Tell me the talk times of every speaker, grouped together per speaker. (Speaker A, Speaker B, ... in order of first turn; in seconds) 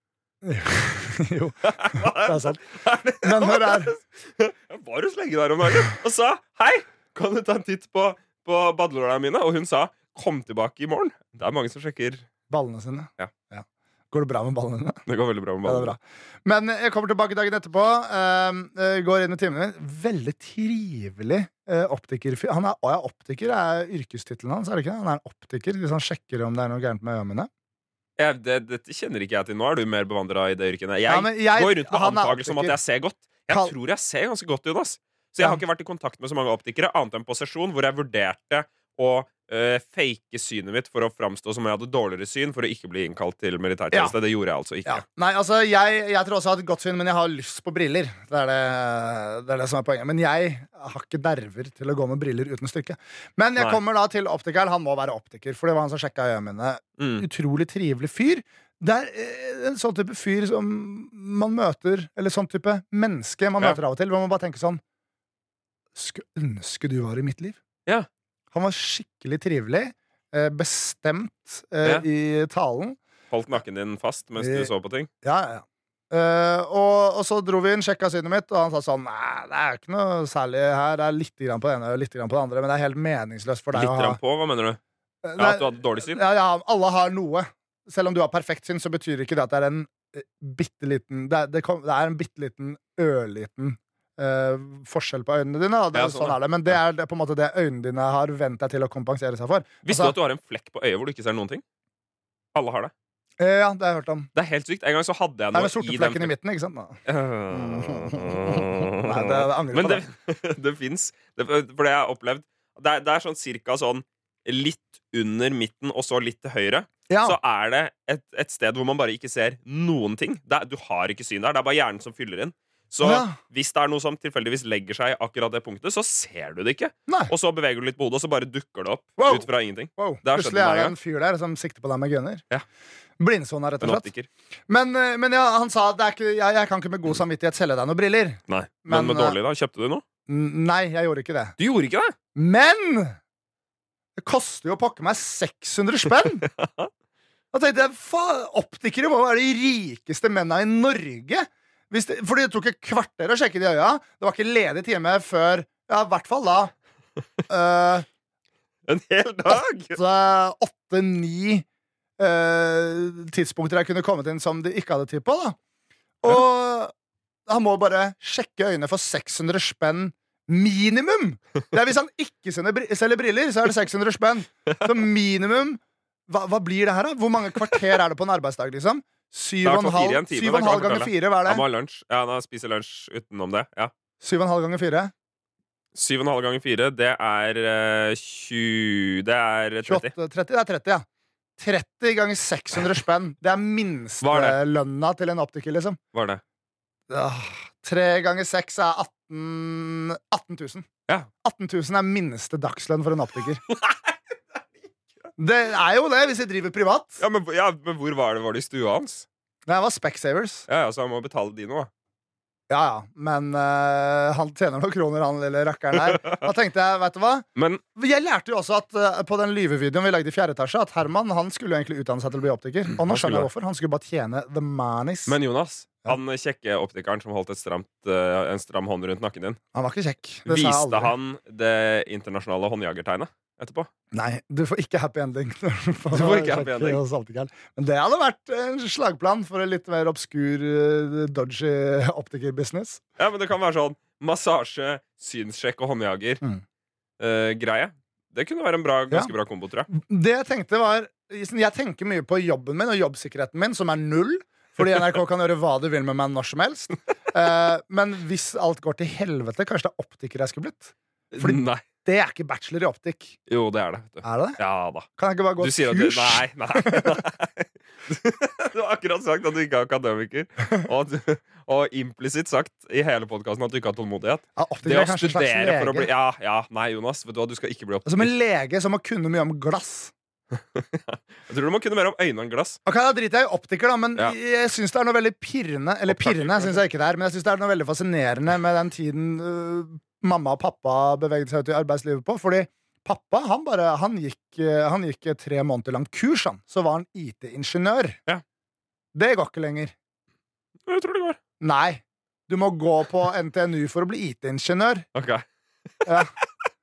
Speaker A: 0.4-2.6, 3.2-3.9, 12.5-15.0, 15.6-27.5, 31.1-32.8, 44.9-64.8, 66.0-67.6, 68.5-73.0, 74.4-74.7, 75.2-84.2, 85.2-100.2, 103.4-104.3, 105.5-110.0, 117.1-117.4, 123.0-123.4, 127.1-127.3, 129.2-132.4, 133.2-134.1, 134.7-139.4, 140.3-141.6, 142.3-143.2, 144.2-146.5, 147.5-156.7, 157.5-158.1, 159.5-161.7, 162.2-165.6, 166.2-166.9, 167.5-181.6, 184.2-185.1, 189.9-191.1, 191.6-196.0, 197.1-200.9, 201.4-203.6, 205.4-207.2, 209.7-210.7, 212.7-225.3, 229.7-231.1, 234.1-243.0, 249.9-263.4, 264.2-267.2, 274.6-276.1, 278.1-280.1, 282.9-298.2, 299.1-299.9, 301.6-305.1, 306.1-306.3
Speaker B: 1.6-12.3, 15.1-15.9, 28.2-45.0, 57.0-57.3, 73.3-75.1, 83.7-84.8, 85.4-86.2, 95.9-96.8, 99.8-101.6, 102.5-102.9, 104.3-106.3, 107.1-130.9, 133.8-134.3, 138.5-140.0, 141.6-142.2, 146.5-146.9, 158.9-160.0, 179.6-183.9, 185.9-190.1, 194.2-194.6, 196.1-196.4, 203.7-204.1, 207.2-209.3, 210.7-211.9, 217.6-217.8, 223.0-223.5, 225.3-229.6, 230.4-233.9, 236.1-237.0, 243.2-246.4, 247.2-249.9, 261.3-261.8, 263.5-265.1, 265.6-278.3, 280.6-282.8, 286.1-286.8, 300.9-301.4, 305.1-305.5